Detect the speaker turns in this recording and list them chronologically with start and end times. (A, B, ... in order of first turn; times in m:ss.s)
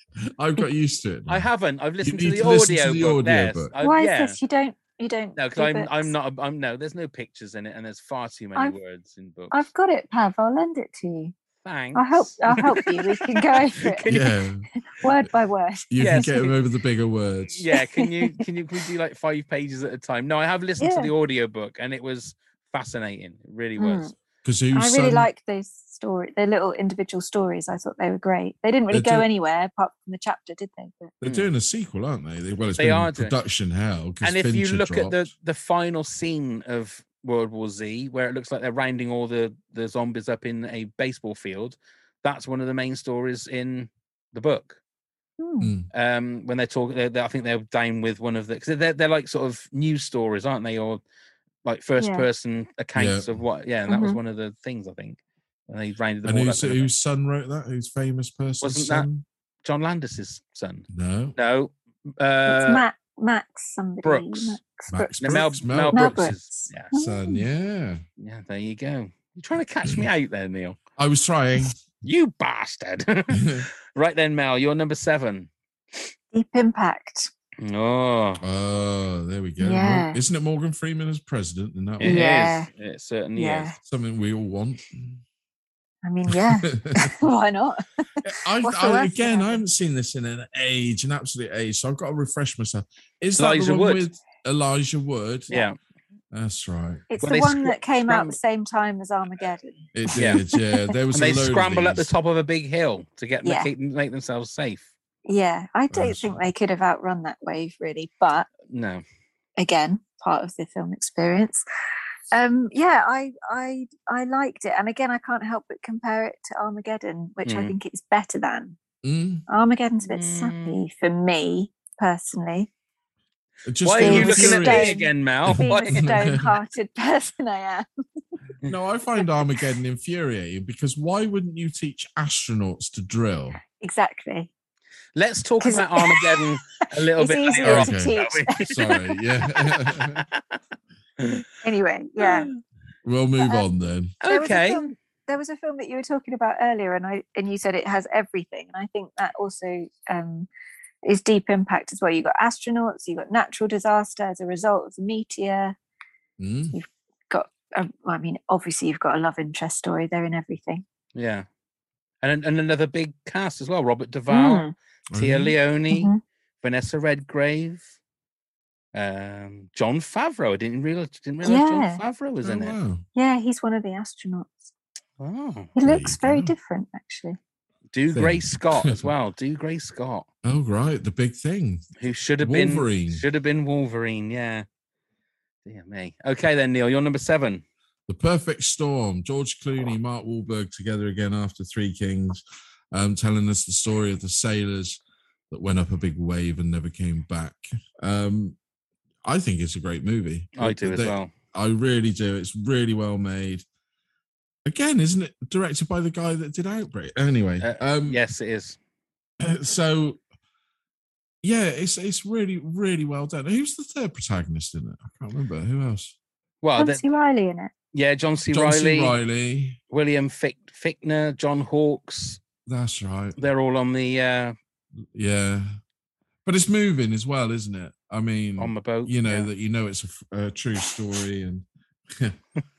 0:00.3-0:01.5 A
0:01.3-0:04.4 B
0:02.0-0:03.7 A
0:03.8-0:06.1 C
0:05.4-0:09.6 B
0:09.5-0:11.3 C
0:11.6-0:14.3 B
0:11.9-0:14.0 C
0:14.1-0:14.6 A
0:15.0-0:16.5 C
0:15.9-0:17.6 A
0:16.0-0:16.5 B
0:17.5-0:24.1 B
0:17.7-0:18.4 C
0:20.8-0:21.1 C
0:23.8-0:24.1 C
0:24.4-0:25.3 A
0:24.7-0:31.1 C
0:28.9-0:29.3 A
0:31.2-0:35.3 A
0:31.2-0:31.5 B
0:32.8-0:33.3 B
0:34.2-0:44.8 B
0:45.4-0:45.7 C
0:45.6-0:45.9 A
0:45.9-0:51.0 B
0:51.6-0:56.9 B
0:52.0-0:52.2 C
0:52.9-0:53.3 A
0:53.9-0:54.2 C
0:56.2-0:59.2 A
0:58.6-0:59.1 B
0:59.6-1:02.8 B
1:00.9-1:01.4 A
1:02.5-1:07.4 C
1:04.0-1:04.6 B
1:04.9-1:06.2 A
1:05.2-1:06.9 B
1:06.9-1:08.0 A
1:08.2-1:10.8 B
1:11.0-1:11.7 A
1:12.0-1:15.5 B
1:13.3-1:13.6 A
1:16.3-1:17.3 C
1:17.6-1:18.4 B
1:18.4-1:22.3 A
1:19.6-1:20.2 C
1:22.0-1:23.7 B
1:22.0-1:22.7 C
1:23.4-1:23.8 C
1:23.8-1:25.2 A
1:26.0-1:29.6 C
1:26.3-1:27.1 A
1:28.2-1:35.5 A
1:33.4-1:34.0 B
1:35.5-1:35.8 B
1:36.3-1:37.1 A
1:37.1-1:40.9 C
1:37.2-1:38.4 B
1:39.9-1:42.1 A
1:40.1-1:40.4 B
1:41.1-1:44.9 B
1:43.4-1:43.7 C
1:45.2-1:48.5 C
1:45.9-1:46.4 A
1:48.7-1:49.0 B
1:49.6-1:51.6 C
1:52.3-1:58.8 C
1:57.4-1:57.7 B
1:59.0-1:59.4 A
1:59.5-2:02.7 C
2:00.0-2:00.8 B
2:03.6-2:06.5 A
2:03.8-2:06.2 B
2:04.0-2:07.8 C
2:08.6-2:13.6 A
2:13.8-2:14.5 C
2:15.2-2:19.0 B
2:15.6-2:16.4 C
2:17.2-2:18.6 C
2:17.6-2:20.2 A
2:19.6-2:20.6 B
2:21.2-2:21.4 B
2:21.6-2:22.5 C
2:22.2-2:22.6 B
2:23.0-2:24.1 A
2:23.4-2:23.6 C
2:24.2-2:24.9 B
2:24.2-2:30.5 C
2:31.0-2:35.8 C
2:36.4-2:36.8 A
2:36.7-2:40.8 C
2:41.1-2:41.4 B
2:42.2-2:46.1 B
2:44.3-2:44.7 C
2:45.1-2:45.6 A
2:45.9-2:46.2 C
2:46.6-2:47.9 B
2:48.9-2:52.8 B
2:51.4-2:52.0 C
2:52.4-2:53.0 A
2:53.1-2:54.7 C
2:55.2-2:55.7 B
2:55.8-2:57.4 C
2:55.8-2:56.5 A
2:57.9-3:00.3 B
2:58.1-2:59.1 A
3:00.4-3:01.9 A
3:02.0-3:04.6 B
3:02.4-3:03.2 A
3:05.6-3:07.6 B
3:08.1-3:12.4 A
3:12.9-3:18.6 A
3:19.2-3:23.6 A
3:20.6-3:21.3 B
3:24.6-3:28.2 A
3:27.6-3:28.8 B
3:29.4-3:30.2 A
3:31.4-3:36.1 A
3:36.6-3:37.0 B
3:36.8-3:37.7 C
3:37.9-3:39.2 B
3:38.5-3:39.8 A
3:39.9-3:42.4 B
3:42.6-3:43.4 A
3:43.4-3:44.5 B
3:45.1-3:45.8 A
3:46.4-3:52.4 A
3:48.6-3:49.5 B